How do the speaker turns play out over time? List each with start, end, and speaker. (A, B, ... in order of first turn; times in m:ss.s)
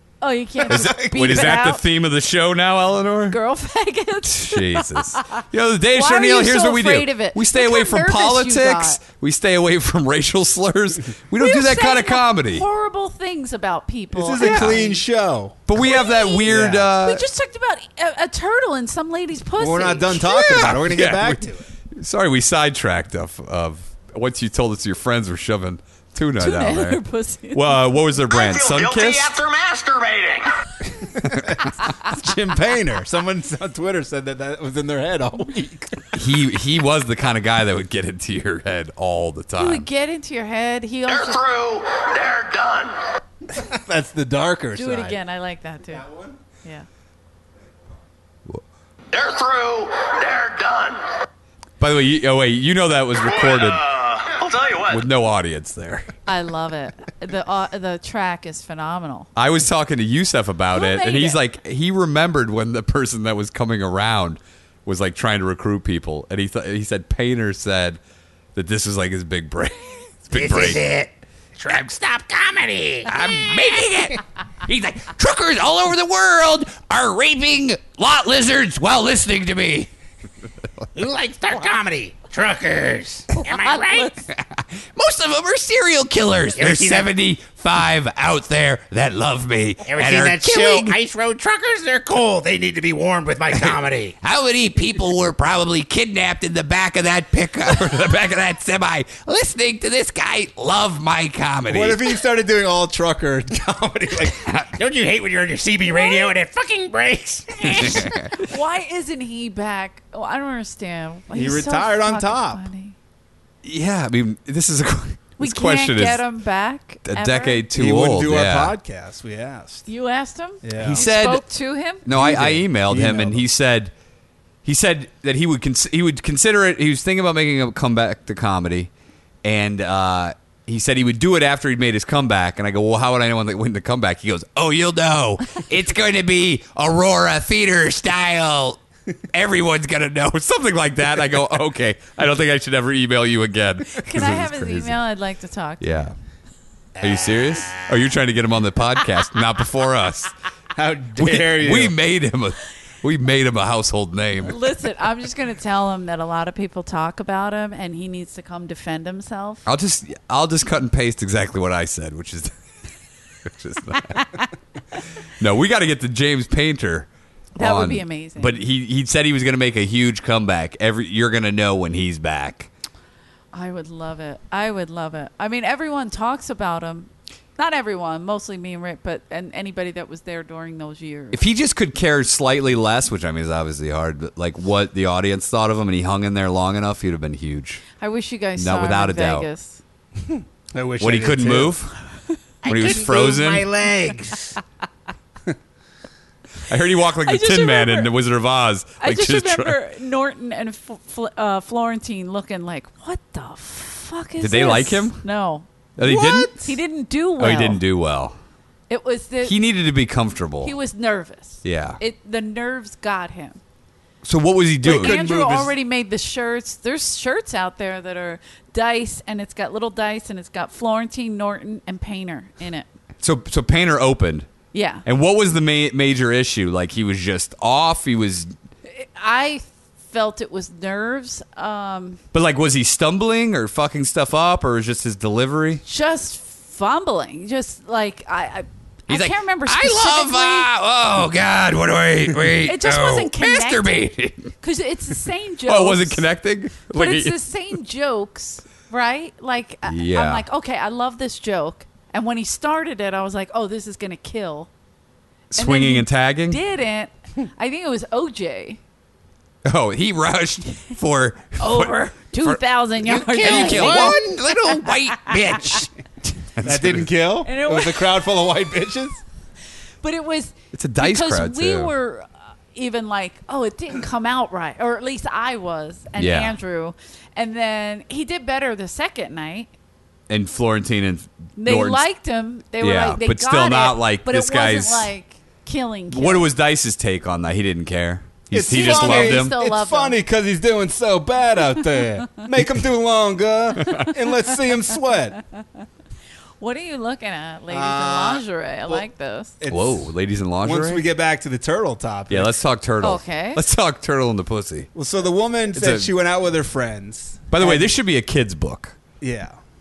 0:00.2-0:01.8 A
0:00.7-0:01.6 B
0:00.7-0:03.4 C
0:03.3-0:05.4 A
0:04.3-0:12.6 C
0:05.9-0:09.0 A
0:11.4-0:15.0 A
0:14.1-0:15.6 B
0:14.4-0:14.8 C
0:15.7-0:17.2 C
0:15.8-0:20.7 A
0:16.5-0:16.9 B
0:19.6-0:21.7 B
0:20.5-0:21.4 C
0:22.0-0:27.0 C
0:26.4-0:27.9 A
0:27.5-0:29.4 C
0:28.4-0:30.5 D
0:31.2-0:36.1 B
0:36.1-0:39.9 C
0:39.6-0:41.4 A
0:41.1-0:43.0 D
0:43.5-0:45.2 B
0:44.7-0:46.1 A
0:46.0-0:46.4 B
0:49.1-0:51.0 D
0:51.8-0:53.9 C
0:53.8-0:55.0 D
0:54.9-0:56.1 C
0:56.3-0:59.3 A
0:59.4-1:08.0 C
1:00.7-1:01.4 A
1:08.6-1:10.8 C
1:10.3-1:13.9 E
1:13.1-1:19.9 C
1:21.0-1:24.1 E
1:23.4-1:24.2 A
1:24.3-1:31.0 C
1:26.6-1:27.1 E
1:29.8-1:34.1 E
1:33.6-1:42.0 C
1:41.7-1:44.4 B
1:44.4-1:44.7 C
1:44.8-1:48.2 E
1:47.6-1:48.3 C
1:48.4-1:52.9 A
1:51.3-1:52.7 B
1:53.6-1:56.2 C
1:55.4-1:57.6 A
1:57.1-1:58.7 C
1:57.7-1:59.8 B
1:59.9-2:02.0 A
2:00.6-2:01.1 B
2:00.8-2:01.4 C
2:02.0-2:03.9 C
2:02.1-2:03.4 B
2:04.6-2:08.9 C
2:09.4-2:18.8 C
2:19.3-2:25.0 C
2:24.0-2:26.1 A
2:25.8-2:26.1 C
2:27.0-2:30.3 C
2:30.8-2:32.0 B
2:31.2-2:34.6 C
2:34.4-2:39.7 A
2:39.6-2:42.5 C
2:43.5-2:44.3 C
2:45.4-2:52.7 C
2:47.6-2:48.6 A
2:53.5-3:01.4 A
3:01.3-3:07.8 C
3:08.0-3:09.8 A
3:08.6-3:09.5 C
3:10.2-3:11.8 B
3:11.0-3:11.9 C
3:12.6-3:14.6 E
3:12.7-3:13.7 C
3:16.7-3:19.8 C
3:17.2-3:18.1 A
3:19.0-3:25.7 A
3:24.4-3:25.2 C
3:26.0-3:26.6 C
3:26.0-3:26.7 B
3:26.6-3:27.8 A
3:27.4-3:28.4 C
3:28.9-3:29.6 A
3:29.4-3:30.7 C
3:30.6-3:33.6 A
3:31.6-3:32.0 C
3:34.2-3:35.2 C
3:34.8-3:35.7 B
3:34.8-3:42.9 A
3:43.2-3:44.5 C
3:44.7-3:45.0 A
3:45.0-3:48.5 C
3:48.9-3:52.2 A
3:52.3-3:55.8 C
3:55.8-4:00.7 A
3:59.1-4:04.5 C
4:02.7-4:04.1 A
4:04.6-4:06.3 A
4:05.7-4:07.4 C
4:06.9-4:14.7 A
4:09.9-4:10.4 C
4:15.5-4:16.6 C
4:15.6-4:18.8 A
4:19.6-4:22.6 C
4:21.6-4:24.3 A
4:23.0-4:24.4 E
4:23.3-4:25.8 C
4:25.3-4:25.9 E
4:26.6-4:27.1 C
4:26.6-4:29.2 B
4:27.4-4:28.4 A
4:30.0-4:39.7 A
4:30.7-4:31.9 C
4:36.2-4:36.6 C
4:40.3-4:42.0 C
4:41.6-4:46.5 A
4:42.8-4:45.1 C
4:46.1-4:49.6 C
4:48.5-4:55.4 B
4:48.7-4:50.2 A
4:56.6-4:59.5 A
4:57.7-4:59.0 B
4:59.6-5:02.6 B
4:59.7-5:01.0 C
5:02.3-5:04.9 C
5:03.0-5:03.6 A
5:05.0-5:07.9 B
5:05.7-5:06.1 C
5:07.5-5:09.0 C
5:09.2-5:09.6 B